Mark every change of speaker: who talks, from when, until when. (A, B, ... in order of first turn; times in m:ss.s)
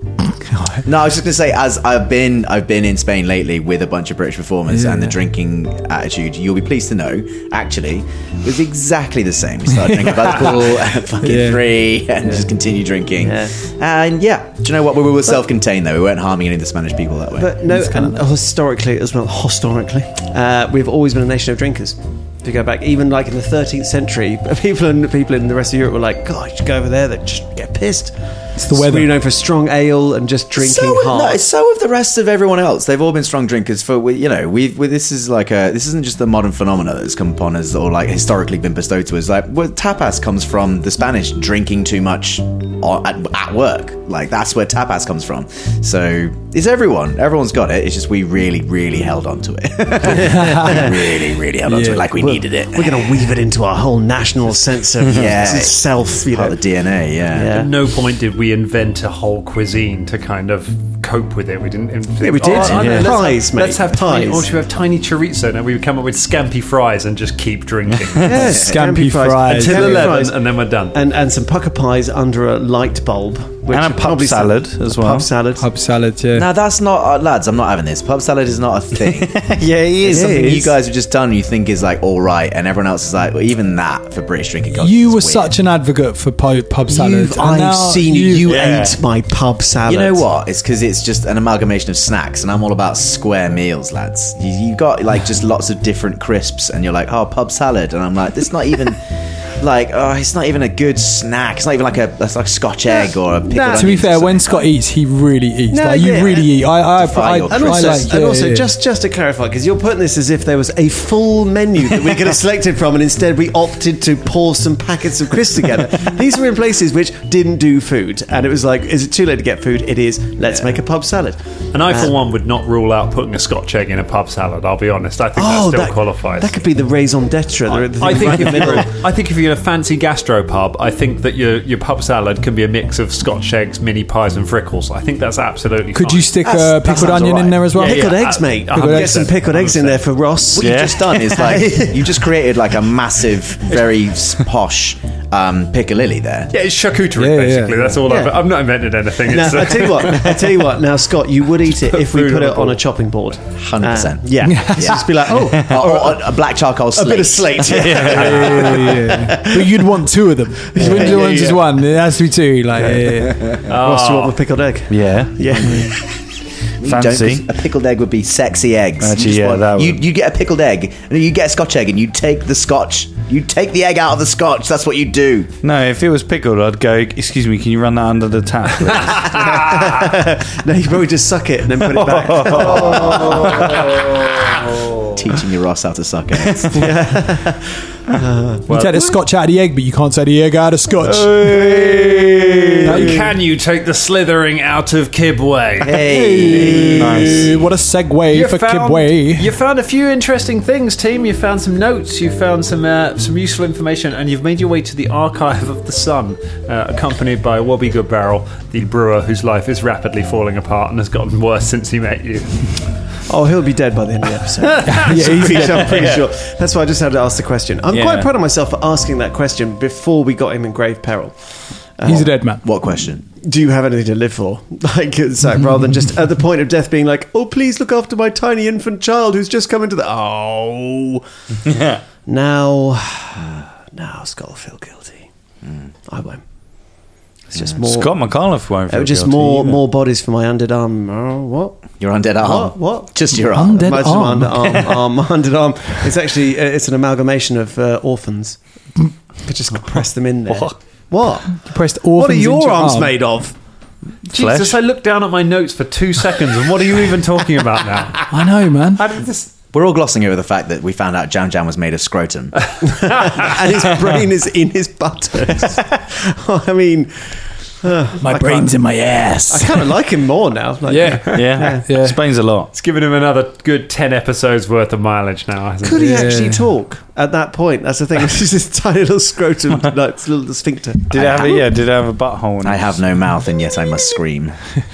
0:00.5-0:00.8 A
0:00.8-0:17.6 B
0:04.7-0:05.2 A
0:09.9-0:10.3 A
0:11.2-0:12.4 A
0:13.2-0:13.5 C
0:17.4-0:31.4 C
0:17.7-0:18.2 A
0:28.6-0:29.2 A
0:30.5-0:53.4 B
0:50.0-0:51.0 C
0:50.1-0:50.9 A
0:51.6-0:52.4 A
0:52.7-0:56.6 C
0:55.1-0:57.7 B
0:57.3-0:57.7 C
0:57.5-1:08.3 D
1:02.2-1:04.5 C
1:02.4-1:02.8 B
1:02.6-1:03.1 E
1:08.2-1:15.6 C
1:08.4-1:08.8 B
1:08.4-1:10.1 A
1:09.5-1:11.0 D
1:13.7-1:15.3 E
1:15.6-1:16.5 A
1:16.3-1:19.5 B
1:19.1-1:20.4 E
1:20.0-1:25.5 B
1:20.0-1:20.7 C
1:24.8-1:28.4 A
1:26.9-1:30.2 C
1:28.4-1:29.0 E
1:29.8-1:44.7 B
1:42.9-1:43.9 C
1:43.7-1:48.7 A
1:45.7-1:46.7 C
1:46.9-1:48.1 B
1:47.5-2:02.1 C
2:00.4-2:00.7 B
2:01.7-2:06.6 D
2:05.3-2:09.0 C
2:07.7-2:16.3 D
2:15.9-2:19.3 A
2:16.4-2:17.6 B
2:16.8-2:22.2 C
2:17.8-2:20.1 D
2:20.6-2:26.5 B
2:20.6-2:21.1 E
2:26.5-2:30.4 D
2:27.2-2:28.0 A
2:28.0-2:28.4 C
2:29.3-2:36.4 C
2:31.7-2:32.8 D
2:33.6-2:38.0 B
2:34.4-2:35.3 A
2:36.9-2:40.0 C
2:37.7-2:38.7 E
2:38.1-2:38.4 D
2:38.1-2:43.5 A
2:40.6-2:41.7 C
2:42.8-2:46.0 C
2:43.7-2:44.4 D
2:44.9-2:45.6 E
2:46.8-2:55.5 B
2:46.8-2:47.4 E
2:49.0-2:50.0 E
2:55.6-2:59.7 E
2:59.1-2:59.6 D
2:59.3-3:04.2 C
3:02.1-3:04.8 D
3:02.3-3:02.8 E
3:05.1-3:06.8 B
3:06.7-3:08.6 C
3:08.7-3:09.2 D
3:08.7-3:11.6 A
3:11.3-3:12.6 E
3:11.3-3:12.7 B
3:12.8-3:13.2 A
3:12.8-3:16.0 D
3:15.8-3:17.4 B
3:16.0-3:19.5 A
3:16.9-3:17.5 E
3:18.3-3:32.8 D
3:33.3-3:42.3 C
3:34.8-3:36.0 A
3:35.8-3:36.2 E
3:37.9-3:38.3 E
3:42.0-3:42.6 A
3:42.1-3:43.2 B
3:43.4-3:51.2 C
3:51.7-3:52.0 E
3:52.2-3:55.3 C
3:56.1-3:56.4 C
3:57.5-4:08.9 C
3:57.8-3:59.8 E
4:02.0-4:04.1 B
4:03.5-4:04.8 A
4:09.4-4:13.5 C
4:10.5-4:10.7 E
4:11.6-4:13.2 A
4:14.3-4:14.8 E
4:14.3-4:18.3 D
4:18.3-4:19.0 A
4:19.0-4:19.5 D
4:19.7-4:22.6 B
4:22.9-4:28.8 C
4:28.2-4:29.9 A
4:29.5-4:31.9 C
4:30.9-4:32.2 A
4:31.3-4:32.7 E
4:32.7-4:36.3 D
4:35.8-4:41.7 C
4:35.9-4:36.7 A
4:41.1-4:42.9 E
4:42.6-4:44.6 B